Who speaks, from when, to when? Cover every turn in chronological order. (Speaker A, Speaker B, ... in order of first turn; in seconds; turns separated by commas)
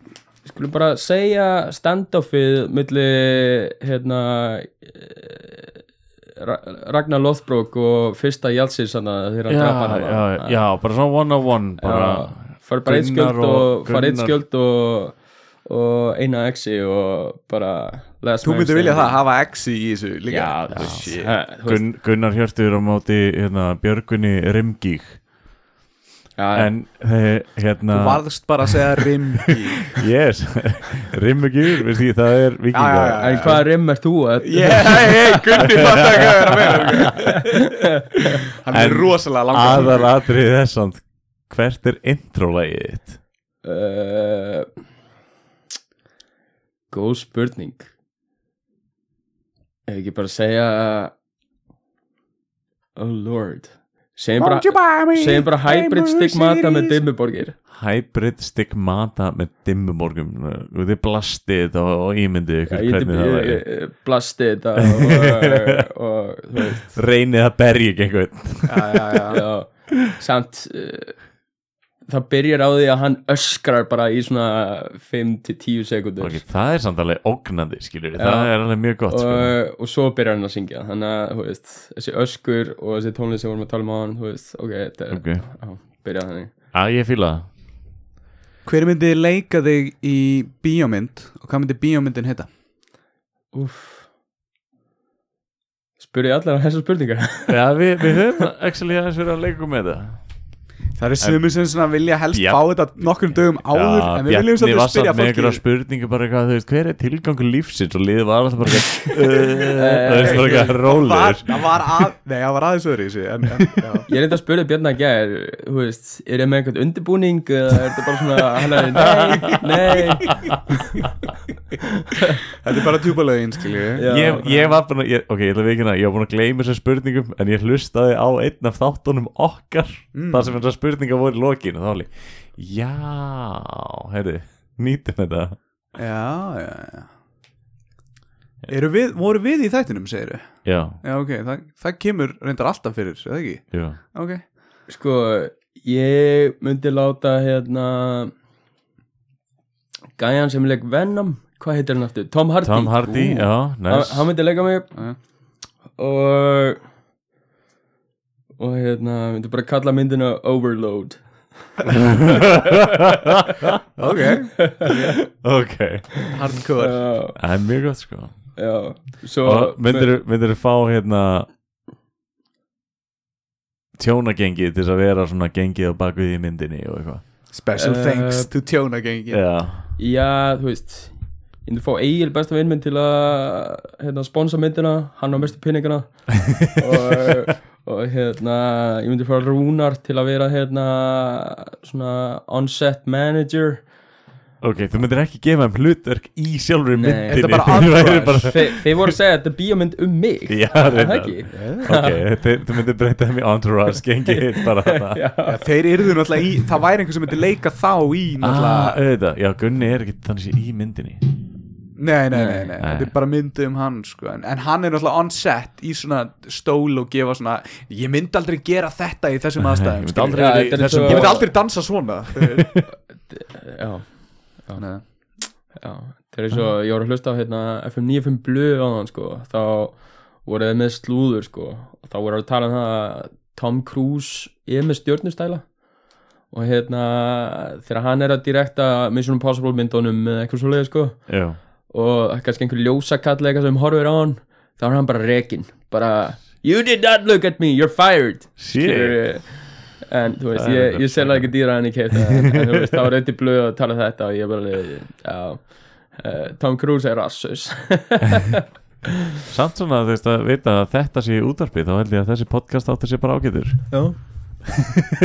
Speaker A: 0.4-5.7, Speaker A: 6.4-10.6, Speaker B: 9.5-14.4, Speaker A: 11.8-19.2, Speaker C: 18.4-21.4, Speaker A: 20.3-21.8, Speaker B: 20.7-25.3, Speaker A: 26.4-26.7, Speaker B: 26.6-29.0, Speaker C: 27.9-29.9, Speaker B: 29.9-33.7, Speaker C: 32.7-33.7, Speaker A: 33.2-35.4, Speaker C: 34.4-37.5, Speaker B: 35.5-37.4, Speaker C: 38.6-40.1, Speaker B: 38.7-43.2, Speaker A: 43.6-44.7, Speaker A: 46.9-47.9, Speaker A: 49.9-51.1, Speaker A: 53.0-57.6, Speaker C: 54.4-57.0, Speaker B: 57.7-63.6, Speaker A: 62.7-67.0, Speaker B: 64.8-65.7, Speaker B: 66.7-69.2, Speaker C: 68.7-69.4, Speaker A: 69.3-71.2, Speaker A: 72.1-76.4, Speaker B: 76.2-79.6, Speaker A: 78.2-86.5, Speaker B: 85.1-85.9, Speaker B: 86.7-87.5, Speaker C: 88.7-92.5, Speaker A: 93.5-94.1, Speaker A: 96.0-98.1, Speaker B: 97.5-100.3, Speaker C: 101.0-105.6, Speaker B: 101.2-111.6, Speaker A: 109.8-110.8, Speaker C: 110.2-114.1, Speaker A: 114.1-121.1, Speaker B: 119.3-120.0, Speaker C: 122.6-124.7, Speaker A: 124.0-124.7, Speaker B: 124.1-135.6, Speaker C: 130.1-130.6, Speaker C: 135.9-137.1, Speaker C: 138.7-144.4, Speaker B: 140.7-141.0, Speaker B: 143.7-144.0, Speaker A: 144.9-148.3, Speaker A: 150.2-155.0, Speaker B: 152.6-154.3, Speaker A: 156.0-156.8, Speaker A: 158.6-161.7, Speaker B: 162.6-163.7, Speaker C: 164.0-164.8, Speaker A: 164.6-164.9, Speaker B: 164.8-166.3, Speaker C: 166.3-167.2, Speaker A: 166.8-167.4, Speaker B: 167.4-171.5, Speaker A: 168.6-170.1, Speaker B: 174.0-177.3, Speaker C: 177.5-179.5, Speaker A: 177.8-178.5, Speaker B: 179.3-179.9, Speaker A: 180.0-193.9, Speaker B: 194.6-199.2, Speaker A: 196.9-202.2, Speaker C: 197.3-198.6, Speaker B: 200.5-205.2, Speaker C: 201.5-201.9, Speaker A: 204.5-206.4, Speaker C: 205.5-209.0, Speaker B: 208.4-211.3, Speaker C: 212.0-222.8, Speaker A: 212.3-212.7, Speaker B: 212.8-213.1, Speaker B: 219.7-221.8, Speaker A: 220.3-221.5, Speaker A: 223.3-235.8, Speaker C: 224.8-225.1, Speaker A: 236.5-258.6, Speaker B: 241.3-241.6, Speaker B: 248.6-249.6, Speaker B: 250.6-252.2, Speaker B: 259.5-264.4, Speaker A: 263.9-264.3